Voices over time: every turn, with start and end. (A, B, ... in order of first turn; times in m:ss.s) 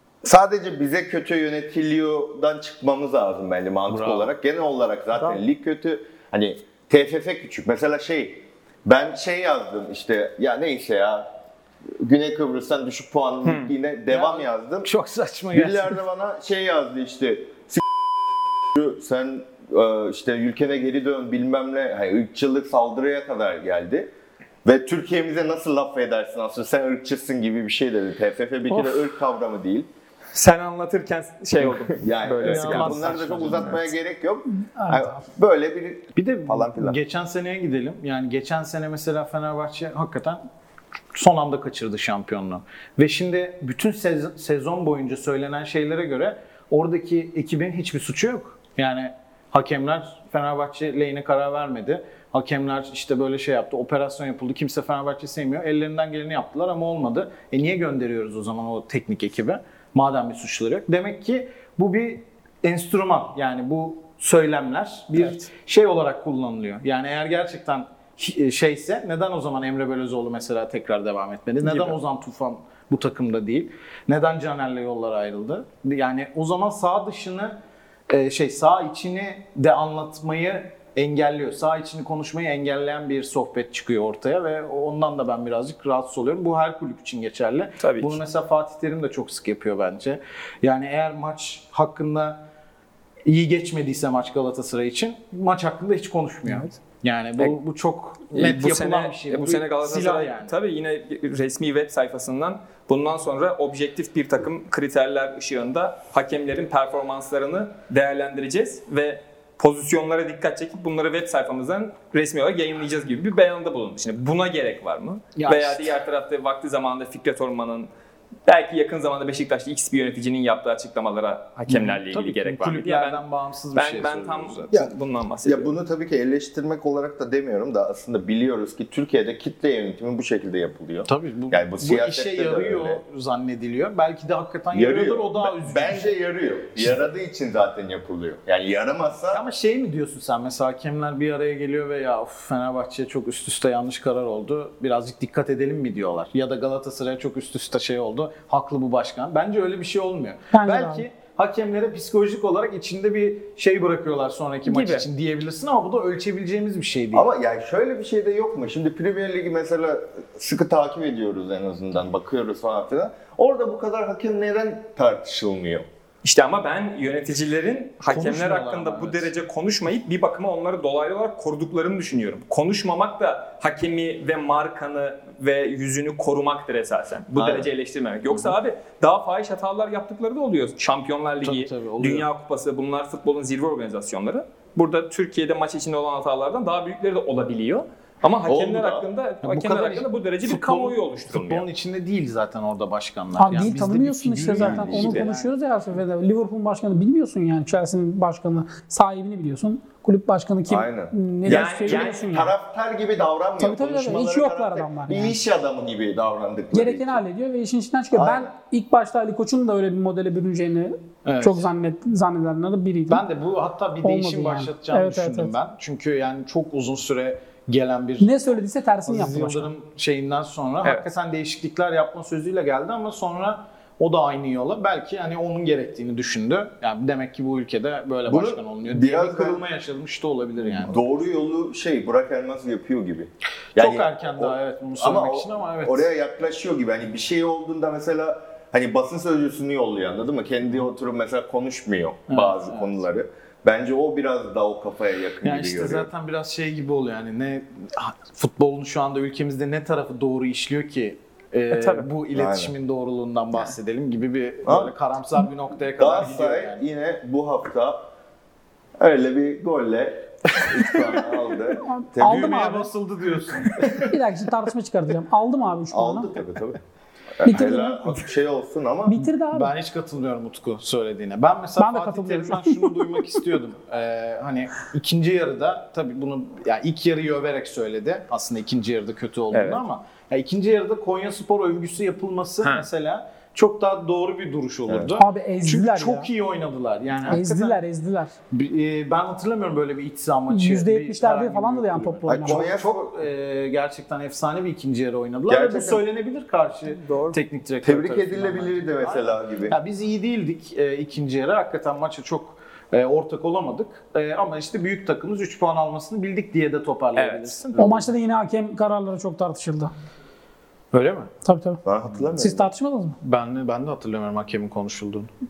0:00.2-0:11.3 A
0:12.0-0:14.9 A
0:13.4-0:13.7 B
0:14.1-0:16.0 C
0:15.5-0:17.8 A
0:18.7-0:24.1 A
0:24.6-0:29.9 A
0:30.3-0:33.7 B
0:31.6-0:37.0 A
0:32.4-0:33.9 C
0:34.6-0:35.2 D
0:36.2-0:40.4 C
0:41.1-1:32.4 C
1:11.6-1:12.0 B
1:27.8-1:28.2 B
1:33.2-1:40.5 C
1:38.3-1:57.9 B
1:55.4-1:55.9 C
1:58.4-2:05.8 B
2:01.7-2:04.7 C
2:05.4-2:13.0 A
2:11.0-2:16.1 C
2:14.7-2:19.4 A
2:19.3-2:37.3 C
2:30.5-2:31.0 D
2:34.6-2:35.0 B
2:37.1-2:45.9 A
2:46.2-3:11.7 B
2:48.0-2:49.3 C
2:57.3-2:57.7 A
3:01.4-3:02.3 C
3:08.4-3:09.1 A
3:09.4-3:15.5 C
3:13.4-3:22.5 D
3:14.6-3:15.3 A
3:20.7-3:27.2 A
3:21.4-3:22.3 B
3:23.6-3:25.4 D
3:26.7-3:33.2 D
3:28.1-3:28.5 A
3:31.2-3:31.7 C
3:33.1-3:38.4 C
3:34.0-3:35.5 D
3:38.2-3:39.7 D
3:39.0-3:51.0 C
3:48.2-3:49.6 A
3:50.8-4:06.1 A
3:53.8-3:56.1 C
4:02.3-4:03.0 C
4:05.4-4:16.8 C
4:11.7-4:12.1 B
4:12.3-4:12.7 A
4:14.6-4:14.9 A
4:16.0-4:18.1 A
4:19.0-4:22.6 A
4:20.6-4:21.2 C
4:21.8-4:22.9 D
4:22.2-4:24.0 C
4:24.0-4:26.3 D
4:25.9-4:26.8 A
4:27.4-4:29.3 A
4:27.4-4:28.2 D
4:29.0-4:29.7 D
4:29.5-4:47.8 C
4:31.8-4:33.0 D
4:39.5-4:39.8 B
4:42.6-4:42.9 B
4:44.9-4:45.1 A
4:45.1-4:46.3 D
4:47.2-4:48.3 D
4:48.5-5:08.1 C
4:50.5-4:52.6 D
4:52.3-4:53.1 A
4:55.5-4:56.0 A
4:56.9-4:57.4 B
4:57.8-4:59.8 A
5:07.1-5:07.7 B
5:07.8-5:09.9 D
5:10.9-5:11.3 C
5:11.4-5:11.8 D
5:11.8-5:12.7 A
5:12.4-5:13.2 D
5:13.2-5:15.3 C